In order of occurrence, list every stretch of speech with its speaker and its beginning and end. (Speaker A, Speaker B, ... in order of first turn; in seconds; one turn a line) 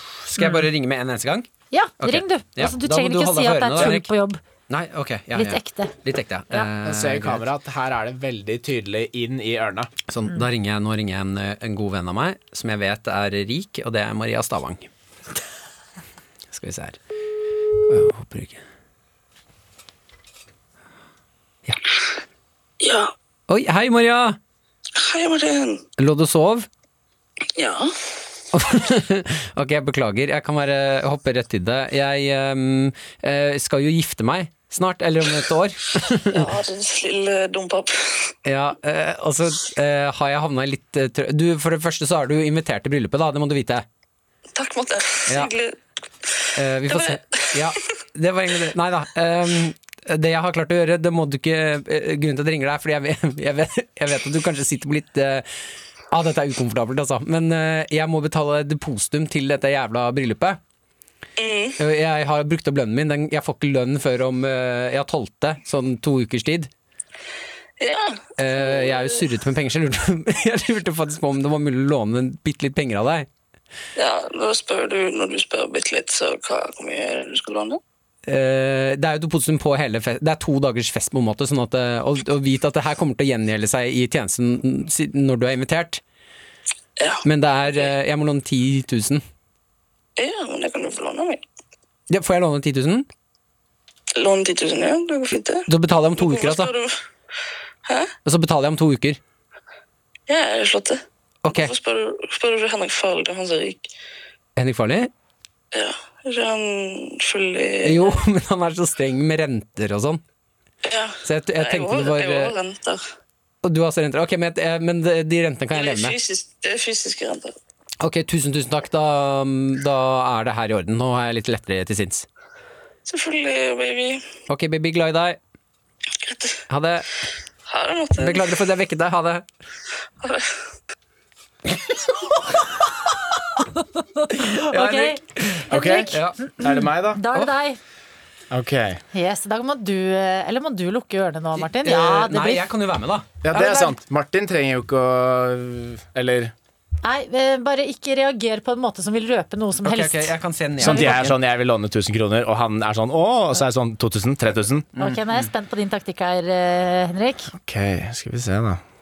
Speaker A: 0.3-1.5
Speaker B: 1.7-4.4
Speaker A: 2.0-4.1
Speaker A: 4.7-7.5
Speaker B: 5.3-5.9
Speaker C: 6.8-9.9
Speaker A: 10.1-14.9
Speaker A: 16.5-17.0
Speaker A: 17.8-18.6
Speaker D: 22.8-23.1
Speaker A: 23.5-24.4
Speaker D: 25.0-25.8
Speaker A: 26.0-26.7
Speaker D: 27.6-27.9
Speaker A: 28.5-36.5
Speaker D: 36.3-38.3
Speaker A: 38.5-43.9
Speaker D: 44.5-45.8
Speaker A: 45.3-45.5
Speaker A: 46.6-55.5
Speaker D: 46.9-47.8
Speaker A: 56.1-60.6
Speaker D: 61.4-61.8
Speaker A: 61.8-66.7
Speaker D: 67.8-69.2
Speaker A: 68.4-73.3
Speaker D: 74.0-77.8
Speaker A: 78.3-86.0
Speaker D: 87.0-87.2
Speaker A: 87.2-89.2
Speaker D: 90.2-91.4
Speaker A: 92.1-93.1
Speaker D: 94.2-97.0
Speaker A: 95.7-96.7
Speaker D: 97.8-98.1
Speaker A: 98.2-99.2
Speaker D: 100.3-103.9
Speaker A: 101.4-101.7
Speaker A: 104.6-105.1
Speaker D: 105.7-108.2
Speaker A: 107.8-110.2
Speaker D: 110.8-113.0
Speaker A: 111.2-112.5
Speaker A: 113.6-116.2
Speaker D: 115.7-117.6
Speaker A: 118.0-122.3
Speaker D: 123.1-124.2
Speaker A: 124.5-125.4
Speaker D: 126.2-126.5
Speaker A: 126.7-127.1
Speaker D: 127.7-128.5
Speaker A: 128.2-129.4
Speaker D: 130.2-130.6
Speaker B: 133.7-137.8
Speaker A: 134.4-136.4
Speaker C: 135.7-137.2
Speaker C: 138.5-139.0
Speaker B: 139.1-142.7
Speaker A: 141.6-143.4
Speaker C: 143.4-146.5
Speaker B: 147.0-151.3
Speaker A: 149.8-151.3
Speaker C: 150.8-154.9
Speaker A: 155.0-155.2
Speaker B: 155.0-157.5
Speaker C: 157.5-158.8